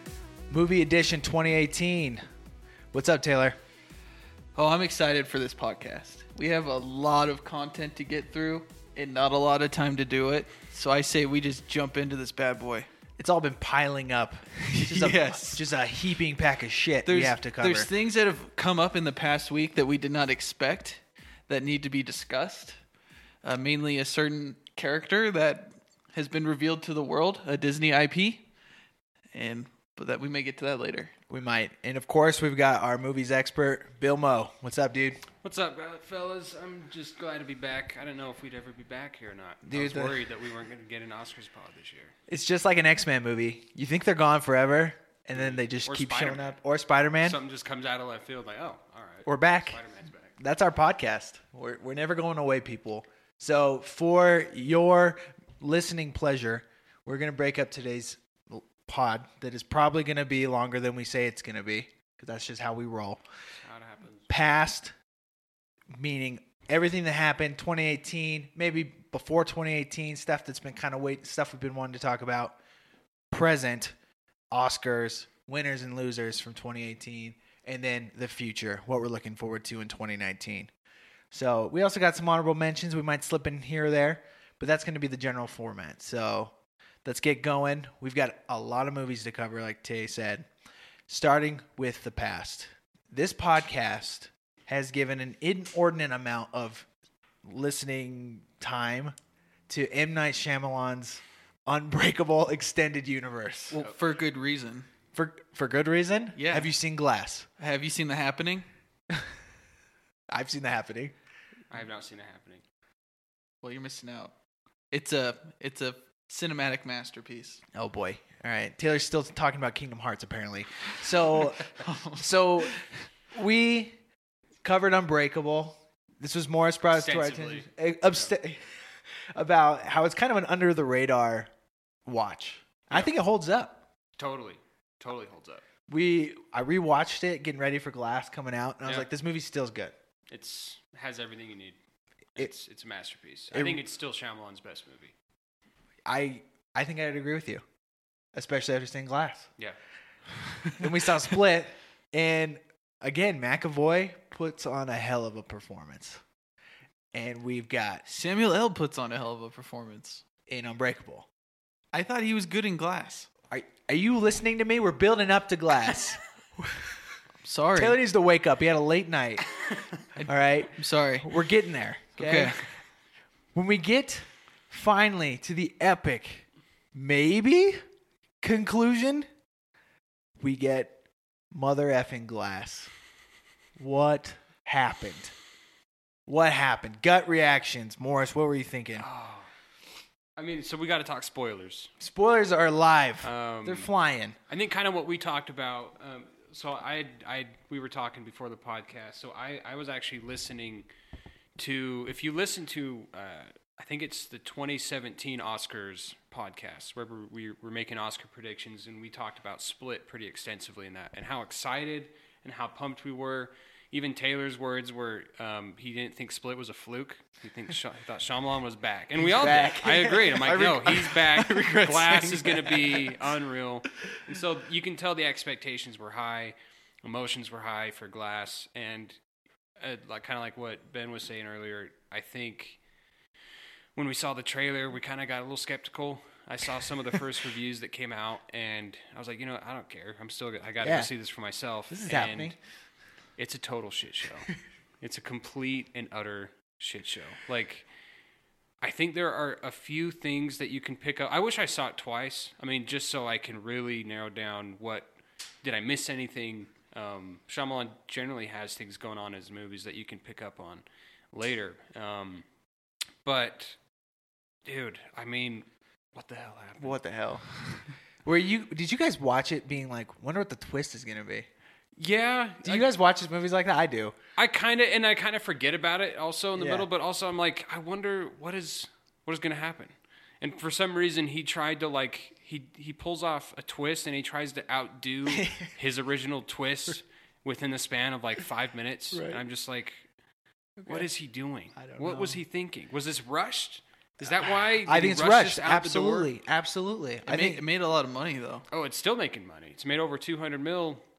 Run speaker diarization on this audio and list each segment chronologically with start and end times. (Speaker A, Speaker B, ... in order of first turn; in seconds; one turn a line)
Speaker A: 0.5-2.2
Speaker A: 2.9-3.6
Speaker B: 4.5-12.9
Speaker A: 13.2-17.9
Speaker B: 14.7-15.7
Speaker B: 17.0-22.8
Speaker B: 23.4-28.4
Speaker B: 29.3-31.1
Speaker A: 31.3-35.2
Speaker C: 35.4-42.1
Speaker A: 39.6-40.2
Speaker A: 42.3-47.4
Speaker C: 45.3-46.6
Speaker C: 47.2-50.3
Speaker A: 49.2-49.8
Speaker A: 50.4-63.2
Speaker C: 63.6-64.3
Speaker A: 64.3-64.9
Speaker A: 65.9-72.6
Speaker A: 73.3-73.9
Speaker A: 74.5-80.7
Speaker A: 81.3-90.5
Speaker A: 91.1-96.9
Speaker A: 97.4-99.1
Speaker A: 99.7-103.8
Speaker B: 103.7-104.8
Speaker A: 105.1-107.5
Speaker B: 106.3-106.7
Speaker B: 107.6-108.7
Speaker A: 110.3-111.1
Speaker C: 111.7-112.6
Speaker B: 113.6-114.3
Speaker B: 114.9-117.6
Speaker A: 117.7-122.8
Speaker B: 121.3-122.8
Speaker A: 123.3-123.9
Speaker A: 124.6-131.5
Speaker C: 126.9-128.3
Speaker A: 132.0-133.8
Speaker C: 134.2-135.6
Speaker A: 135.9-139.9
Speaker C: 140.3-141.8
Speaker C: 142.3-145.1
Speaker A: 143.5-143.8
Speaker A: 146.1-147.6
Speaker A: 148.3-149.5
Speaker A: 150.7-156.2
Speaker A: 157.1-158.0
Speaker B: 158.1-160.2
Speaker A: 160.5-161.3
Speaker B: 161.9-163.3
Speaker A: 163.5-167.0
Speaker B: 167.4-168.0
Speaker A: 167.7-169.5
Speaker B: 170.2-171.3
Speaker A: 170.2-172.6
Speaker B: 172.2-172.6
Speaker A: 173.5-177.8
Speaker A: 178.4-179.3
Speaker A: 180.4-181.0
Speaker A: 181.5-182.9
Speaker A: 183.8-185.3
Speaker A: 186.3-189.1
Speaker C: 189.0-189.5
Speaker C: 190.4-191.9
Speaker A: 192.0-194.4
Speaker C: 193.2-193.9
Speaker C: 194.5-200.9
Speaker C: 201.6-229.2
Speaker A: 219.2-220.4
Speaker B: 220.2-223.2
Speaker C: 229.8-232.8
Speaker C: 233.9-242.5
Speaker A: 240.8-241.1
Speaker A: 241.9-242.6
Speaker C: 243.4-247.9
Speaker C: 248.8-255.1
Speaker C: 255.6-262.4
Speaker C: 263.2-263.8
Speaker C: 264.6-267.0
Speaker A: 266.8-267.5
Speaker A: 268.2-271.5
Speaker C: 272.0-272.9
Speaker A: 272.6-274.1
Speaker C: 274.4-290.1
Speaker A: 276.6-276.9
Speaker A: 289.1-289.4
Speaker A: 290.8-291.1
Speaker C: 290.8-296.3
Speaker A: 291.8-292.4
Speaker A: 294.2-297.6
Speaker B: 297.2-298.6
Speaker C: 298.7-301.0